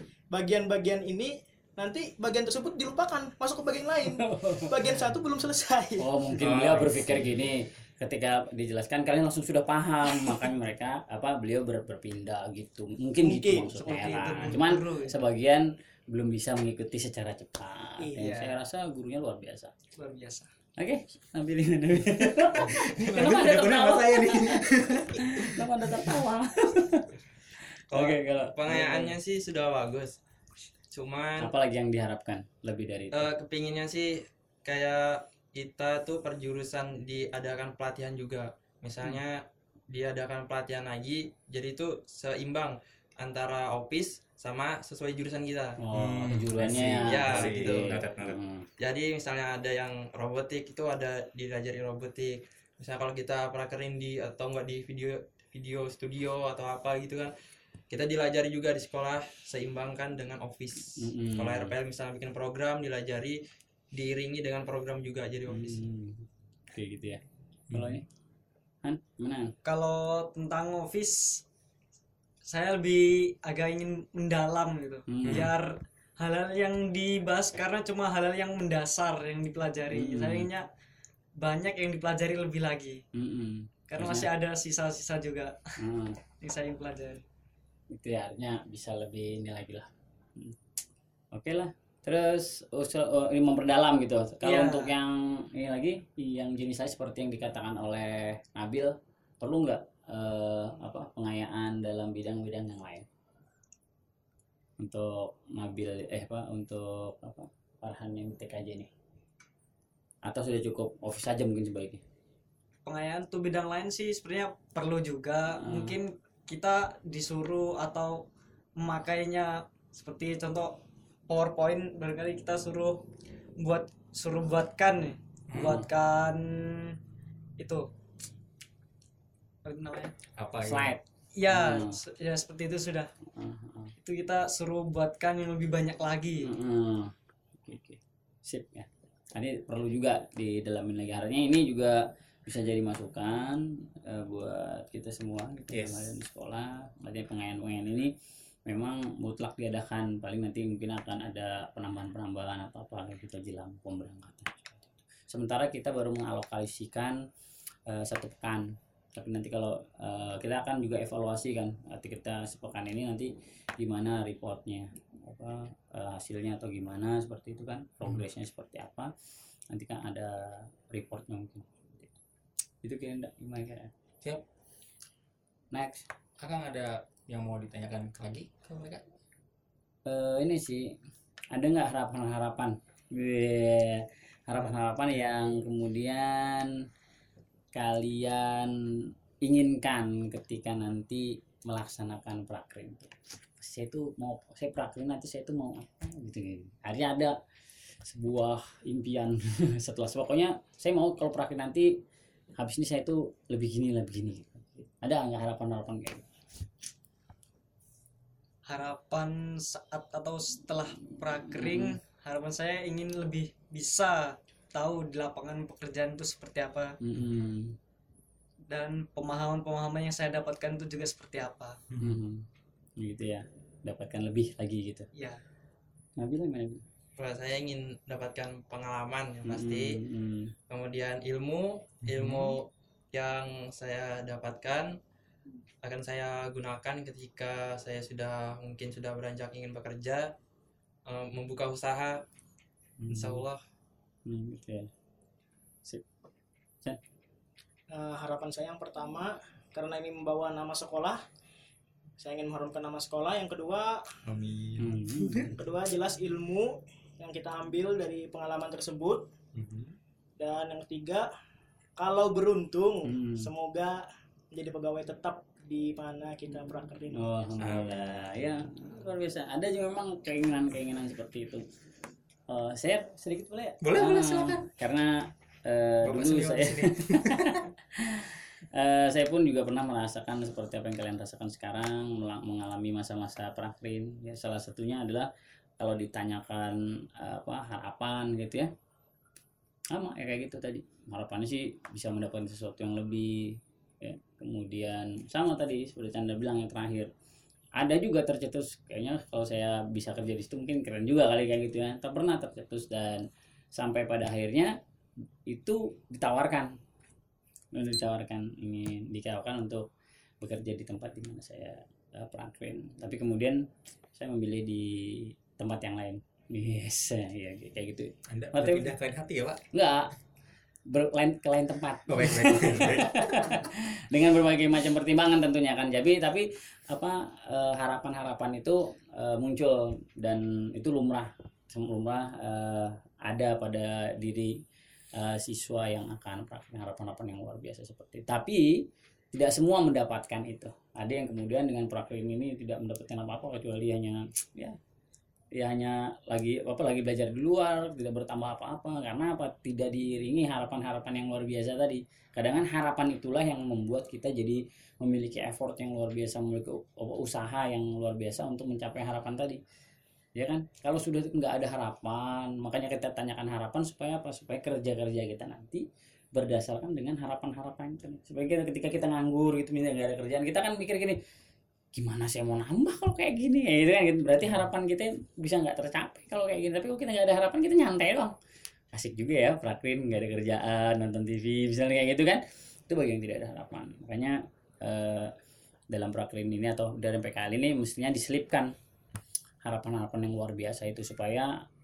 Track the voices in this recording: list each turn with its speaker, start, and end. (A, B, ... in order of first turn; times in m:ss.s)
0:00.3-0:06.1 A
0:04.0-0:04.9 B
0:06.0-0:19.7 B
0:06.4-0:07.4 C
0:13.2-0:13.8 A
0:13.7-0:15.2 D
0:18.2-0:18.6 D
0:20.0-0:20.5 D
0:20.8-0:27.1 B
0:22.2-0:26.2 C
0:27.9-0:30.2 E
0:27.9-0:29.1 B
0:30.9-0:31.5 E
0:31.4-0:33.3 B
0:33.1-0:45.8 E
0:45.8-0:48.7 B
0:45.9-0:48.4 C
0:46.7-0:48.1 E
0:48.8-0:57.3 E
0:57.9-1:03.4 E
1:01.0-1:01.7 B
1:03.9-1:05.8 E
1:05.5-1:08.0 B
1:07.7-1:08.0 C
1:08.8-1:09.5 B
1:09.6-1:11.4 D
1:12.4-1:20.7 D
1:15.1-1:15.5 B
1:15.2-1:15.5 C
1:19.9-1:20.5 B
1:21.4-1:23.0 D
1:23.1-1:24.3 B
1:23.9-1:25.6 D
1:25.8-1:26.2 B
1:26.4-1:27.2 D
1:27.9-1:30.6 B
1:31.3-1:43.0 B
1:34.4-1:34.9 D
1:44.8-1:48.9 B
1:50.2-1:52.0 B
1:52.8-2:07.0 D
1:55.6-1:56.0 B
2:05.5-2:05.8 C
2:05.6-2:05.8 B
2:07.6-2:07.9 D
2:09.6-2:10.1 D
2:10.4-2:10.9 C
2:10.6-2:12.0 B
2:11.3-2:13.1 D
2:13.3-2:13.9 B
2:14.0-2:16.5 D
2:16.4-2:28.1 B
2:25.7-2:26.1 C
2:28.6-2:37.2 B
2:37.9-2:49.1 B
2:49.7-2:52.1 B
2:52.8-2:53.9 B
2:55.7-2:56.0 B
2:56.4-2:59.0 C
3:00.0-3:01.0 B
3:01.5-3:06.7 B
3:07.7-3:08.7 B
3:09.4-3:17.3 B
3:18.0-3:22.0 B
3:22.6-3:26.2 B
3:28.6-3:37.0 D
3:31.4-3:32.0 B
3:37.0-3:37.8 B
3:38.7-3:41.8 D
3:41.9-3:42.2 C
3:42.0-3:42.4 B
3:43.0-3:45.1 B
3:45.1-3:45.4 D
3:46.2-3:46.8 B
3:47.2-3:50.0 E
3:49.4-3:50.5 B
3:50.7-3:55.0 E
3:52.0-3:52.6 C
3:55.8-4:00.3 E
4:01.0-4:02.2 E
4:03.0-4:03.4 B
4:03.1-4:03.6 E
4:04.2-4:04.9 B
4:07.9-4:11.2 A
4:12.2-4:14.0 A
4:14.2-4:15.5 C
4:14.8-4:15.6 B
4:15.5-4:19.3 A
4:19.5-4:19.9 C
4:20.4-4:21.3 A
4:22.0-4:27.3 A
4:23.0-4:23.5 B
4:27.1-4:31.6 B
4:27.6-4:28.3 C
4:32.5-4:48.7 B
4:33.8-4:34.6 C
4:36.0-4:37.6 C
4:49.9-4:57.1 B
4:57.8-5:04.7 B
5:05.5-5:06.8 B
5:07.7-5:09.8 B
5:10.4-5:18.9 B
5:18.3-5:19.6 C
5:19.7-5:20.1 B
5:20.9-5:34.6 B
5:22.1-5:23.6 C
5:35.1-5:44.8 B
5:45.5-5:59.6 B
6:00.4-6:11.2 B
6:11.9-6:18.3 B
6:18.9-6:25.3 B
6:25.9-6:28.7 B
6:29.6-6:31.6 B